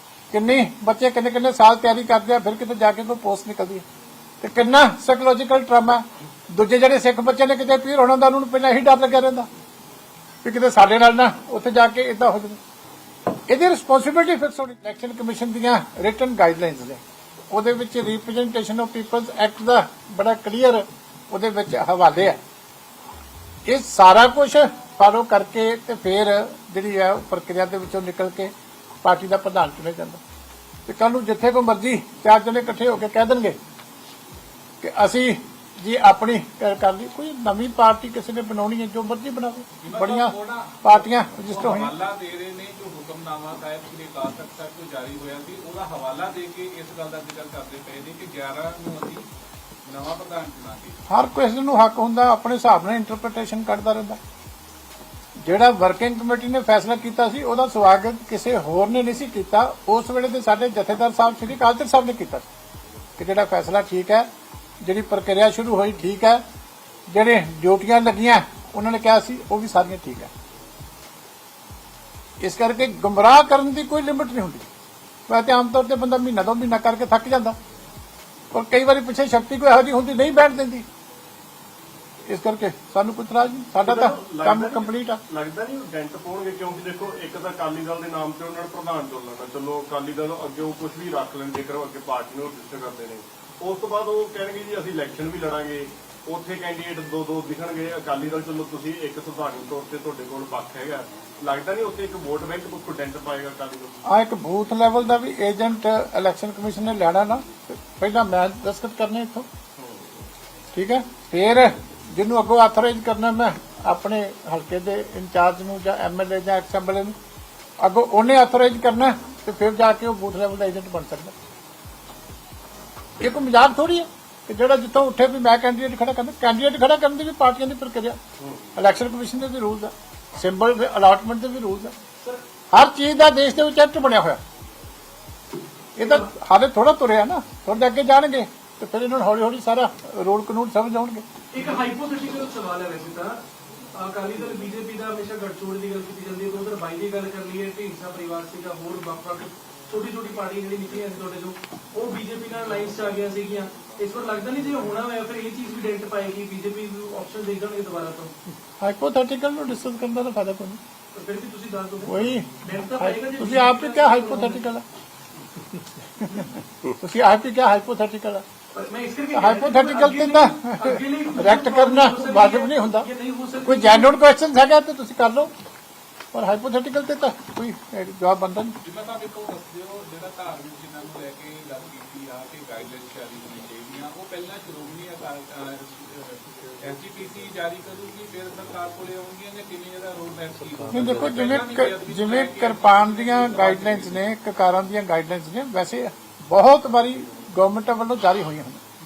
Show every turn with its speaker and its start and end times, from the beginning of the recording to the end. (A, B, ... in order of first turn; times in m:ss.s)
0:00.3-0:03.8 A
0:04.4-0:09.5 A
0:10.4-0:12.6 A
0:13.5-0:22.4 A
0:23.6-0:28.5 A
0:29.0-0:30.2 A
0:30.9-0:33.6 A
0:34.8-0:41.9 A
0:39.8-0:49.2 B
0:49.8-0:51.0 B
0:51.1-0:54.2 A
0:55.4-1:02.4 A
1:03.2-1:04.3 A
1:04.8-1:06.4 A
1:07.1-1:10.3 A
1:12.4-1:14.7 A
1:15.3-1:17.6 A
1:18.5-1:20.8 A
1:22.2-1:25.2 A
1:23.8-1:44.0 C
1:44.0-1:49.5 A
1:49.8-1:50.2 C
1:50.7-1:57.2 A
1:57.8-2:01.3 A
2:03.2-2:08.2 A
2:08.4-2:08.7 C
2:08.8-2:11.9 A
2:12.7-2:14.4 A
2:16.0-2:21.2 A
2:16.0-2:16.3 D
2:21.5-2:23.4 D
2:23.9-2:38.3 D
2:38.8-2:40.8 A
2:41.1-2:44.6 D
2:42.0-2:44.8 A
2:46.2-2:48.4 A
2:48.7-2:54.1 D
2:49.3-2:53.1 A
2:53.6-2:55.5 A
2:56.3-2:58.8 A
2:58.8-3:14.2 B
3:10.9-3:18.8 A